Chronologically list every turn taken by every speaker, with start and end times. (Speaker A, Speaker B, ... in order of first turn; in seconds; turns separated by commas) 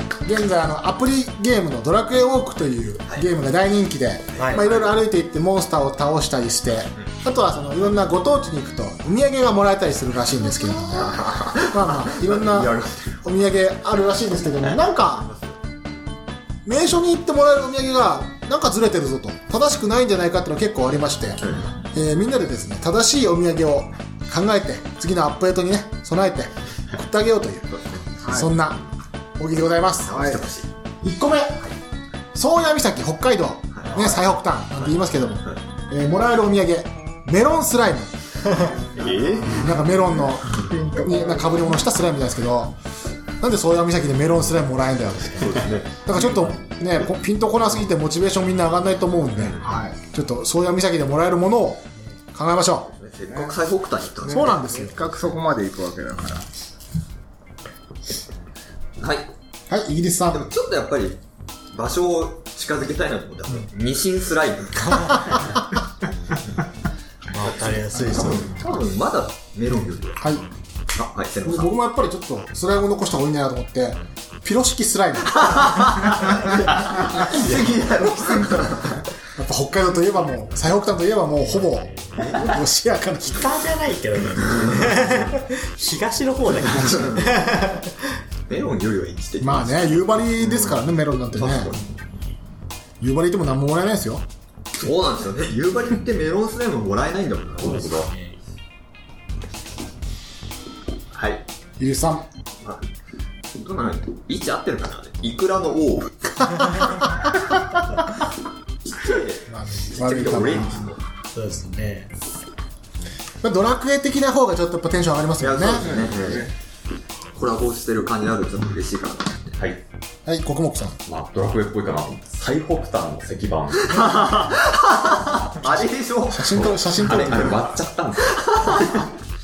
Speaker A: 0.2-15.3, Speaker B: 4.3-5.0, Speaker C: 4.4-4.6, Speaker B: 10.9-13.2, Speaker B: 15.0-15.6, Speaker A: 16.6-28.8, Speaker B: 21.4-21.7, Speaker B: 27.7-28.1, Speaker D: 28.2-28.5, Speaker A: 29.4-30.3, Speaker B: 30.1-30.7, Speaker D: 30.1-30.4, Speaker A: 31.0-31.6, Speaker A: 32.3-38.2, Speaker B: 33.7-34.2, Speaker B: 38.9-39.9, Speaker D: 39.0-39.5, Speaker A: 39.4-42.8, Speaker D: 40.5-41.8, Speaker A: 43.4-52.9, Speaker B: 45.3-46.0, Speaker B: 49.4-49.6, Speaker D: 49.6-49.9, Speaker B: 52.9-54.6, Speaker D: 54.2-56.5, Speaker A: 54.3-55.1, Speaker B: 59.0-59.3, Speaker A: 59.7-60.5, Speaker B: 60.3-61.2, Speaker B: 61.7-65.4, Speaker C: 64.8-65.4, Speaker C: 67.3-68.7, Speaker A: 67.9-68.5, Speaker B: 68.1-70.2, Speaker A: 70.2-70.5, Speaker B: 70.9-71.7, Speaker A: 71.4-75.7, Speaker B: 75.6-79.0, Speaker A: 79.3-83.5, Speaker C: 81.6-82.5, Speaker C: 83.3-88.2, Speaker B: 86.8-87.2, Speaker B: 88.5-92.0, Speaker A: 89.4-91.8, Speaker A: 93.0-94.3, Speaker B: 94.7-97.8, Speaker E: 97.6-98.1, Speaker C: 97.7-98.4, Speaker B: 101.1-101.4, Speaker A: 101.8-102.3, Speaker B: 102.6-102.9, Speaker B: 103.5-106.3, Speaker B: 108.8-111.0, Speaker A: 109.5-110.9, Speaker C: 111.3-112.1, Speaker A: 113.4-116.0, Speaker B: 115.4-116.5, Speaker D: 115.8-116.5, Speaker B: 117.3-119.5, Speaker E: 119.6-119.8, Speaker A: 120.2-121.0, Speaker E: 121.0-124.5, Speaker B: 123.9-127.6, Speaker A: 126.3-127.6, Speaker E: 126.5-128.8, Speaker B: 128.2-129.0